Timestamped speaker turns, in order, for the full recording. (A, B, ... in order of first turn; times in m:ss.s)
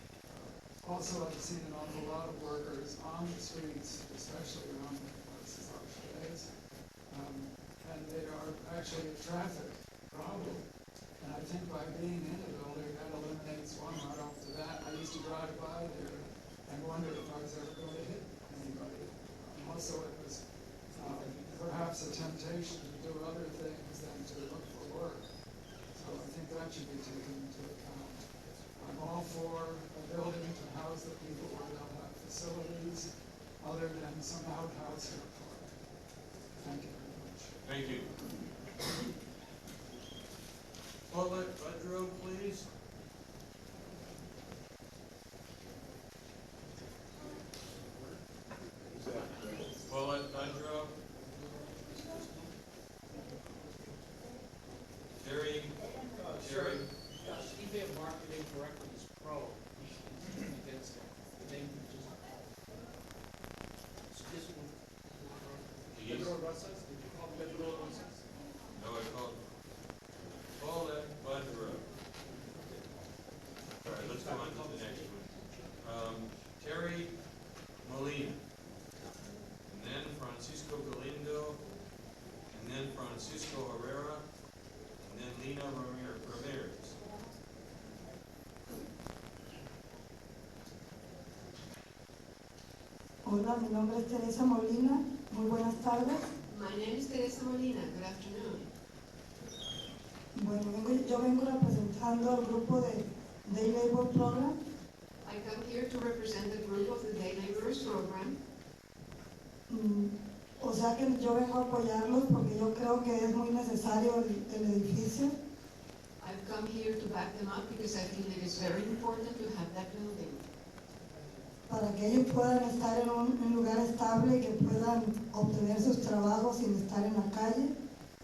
0:00.3-0:06.5 A
0:07.1-0:10.7 A
0:11.2-0:25.3 A
0:26.0-0:35.8 A
0:36.6-0:37.8 A
0:37.6-0:38.1 B
0:41.1-0:42.7 B
0:47.3-0:48.2 C
0:48.9-0:49.7 C
0:49.8-0:51.0 B
0:51.3-0:52.5 C
0:55.2-0:55.8 B
0:56.2-1:02.3 C
0:56.3-0:56.9 B
1:04.1-1:08.3 C
1:05.9-1:06.4 B
1:08.7-1:09.4 B
1:10.6-1:11.9 B
1:12.3-1:12.8 C
1:13.8-1:17.2 B
1:13.9-1:15.1 C
1:17.8-1:18.4 B
1:19.7-1:21.6 B
1:22.5-1:24.2 B
1:25.0-1:27.0 B
1:33.2-1:36.2 D
1:36.5-1:38.7 E
1:40.4-1:44.6 D
1:45.2-1:48.4 E
1:49.7-1:55.4 D
1:56.2-2:00.4 E
2:01.7-2:07.7 D